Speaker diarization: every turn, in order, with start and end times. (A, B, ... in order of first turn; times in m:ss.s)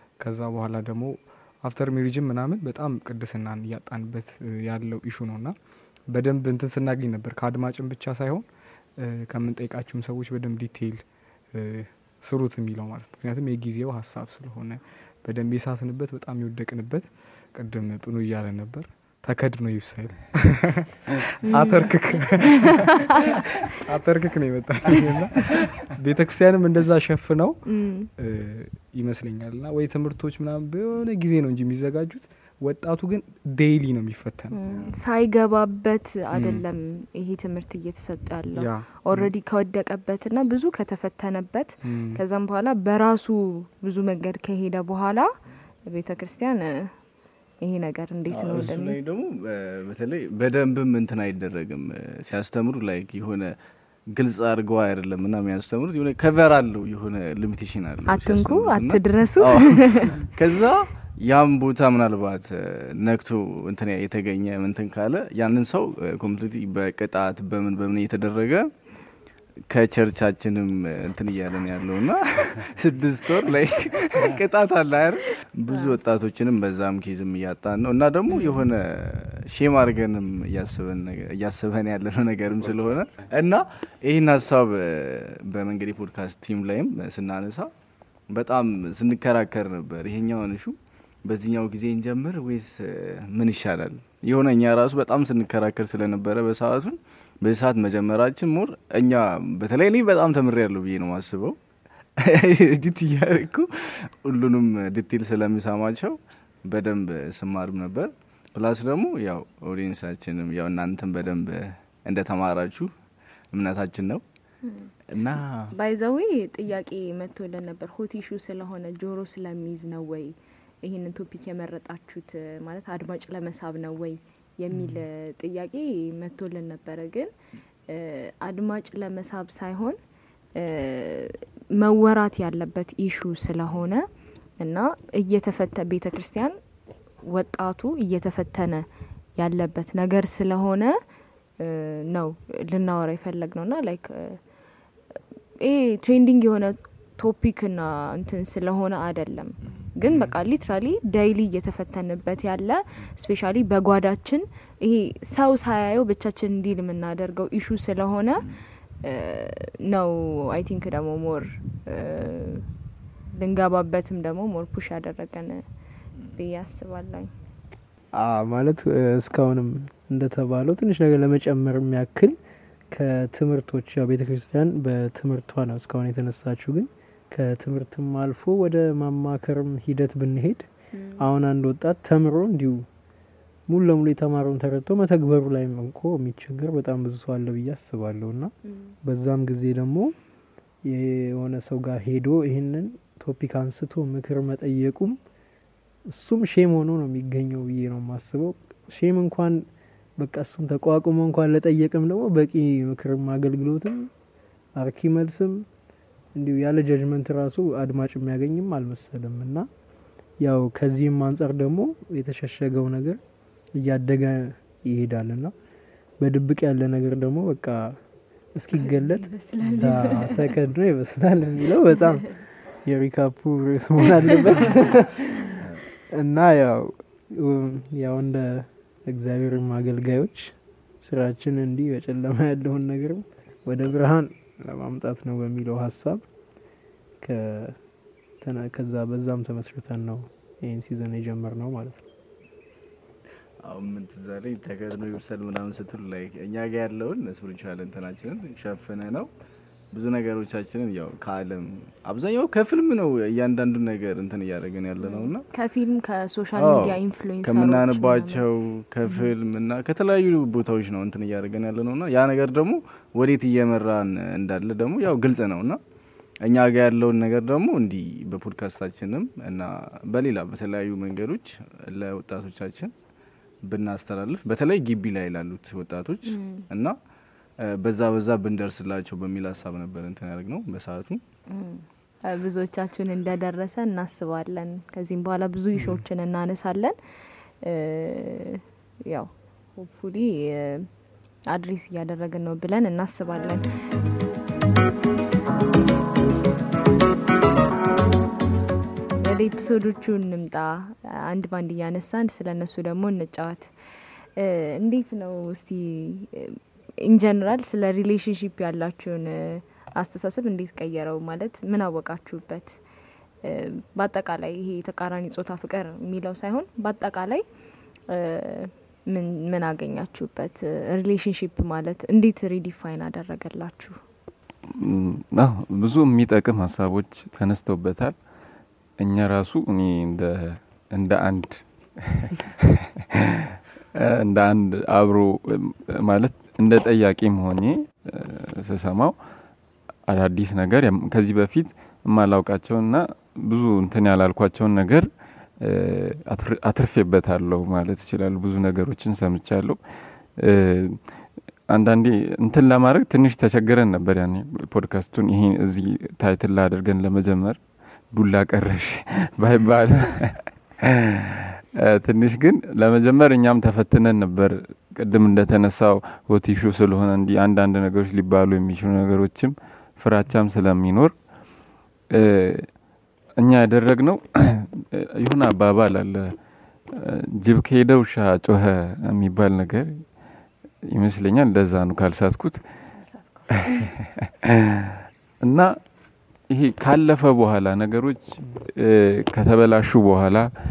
0:00.2-0:05.6 A
0:06.1-0:34.6 A
0:21.5-0:22.6 B
0:27.7-0:28.1 B
0:34.5-0:45.3 B
0:36.3-0:36.6 A
0:38.5-0:39.3 A
0:41.8-0:42.2 A
0:45.9-0:46.9 B
0:47.6-0:49.0 B
0:48.3-0:53.6 C
0:54.1-1:08.9 C
0:58.1-1:00.2 B
1:09.7-1:27.7 C
1:15.7-1:16.0 B
1:18.3-1:18.7 B
1:28.3-1:41.6 C
1:42.2-1:52.9 C
1:53.5-1:54.2 C
1:54.6-1:54.9 B
1:55.1-1:55.7 C
1:55.7-2:07.3 B
2:07.9-2:10.0 B
2:10.6-2:14.1 B
2:14.6-2:16.6 B
2:17.2-2:18.8 B
2:19.4-2:21.0 B
2:21.6-2:24.4 B
2:25.6-2:38.5 B
2:30.1-2:30.3 A
2:39.0-2:42.7 B
2:43.3-2:45.6 B
2:46.3-2:47.3 B
2:48.1-2:52.4 D
2:52.9-3:02.8 D
3:00.9-3:01.2 B
3:03.7-3:10.2 D
3:08.6-3:08.9 B
3:10.8-3:15.2 D
3:16.1-3:24.1 D
3:24.8-3:25.7 D
3:26.3-3:29.7 D
3:30.4-3:33.2 D
3:33.8-3:35.5 D
3:36.2-3:45.6 D
3:38.8-3:40.5 B
3:46.1-3:56.3 D
3:57.2-3:57.8 D
3:58.4-4:02.0 D
4:03.6-4:09.3 C
4:09.9-4:15.5 C
4:15.0-4:18.5 B
4:16.6-4:25.8 C
4:26.4-4:33.0 C
4:33.6-4:37.0 C
4:36.3-4:36.7 B
4:37.6-4:41.2 C
4:41.5-4:47.0 B
4:45.8-4:46.0 A
4:47.6-4:50.9 B
4:51.5-4:53.8 B
4:59.2-5:03.7 B
5:04.4-5:12.8 B
5:13.4-5:17.4 B
5:18.1-5:24.0 B
5:24.7-5:28.2 E
5:29.0-5:39.2 E
5:40.1-5:45.1 E
5:45.6-5:49.8 E
5:50.4-5:51.1 E
5:51.7-5:57.6 E
5:58.1-6:11.1 E
6:12.1-6:12.7 E
6:13.4-6:16.3 E
6:16.9-6:20.0 E
6:20.8-6:22.6 E
6:23.1-6:23.8 B
6:23.6-6:25.7 E
6:26.5-6:30.5 E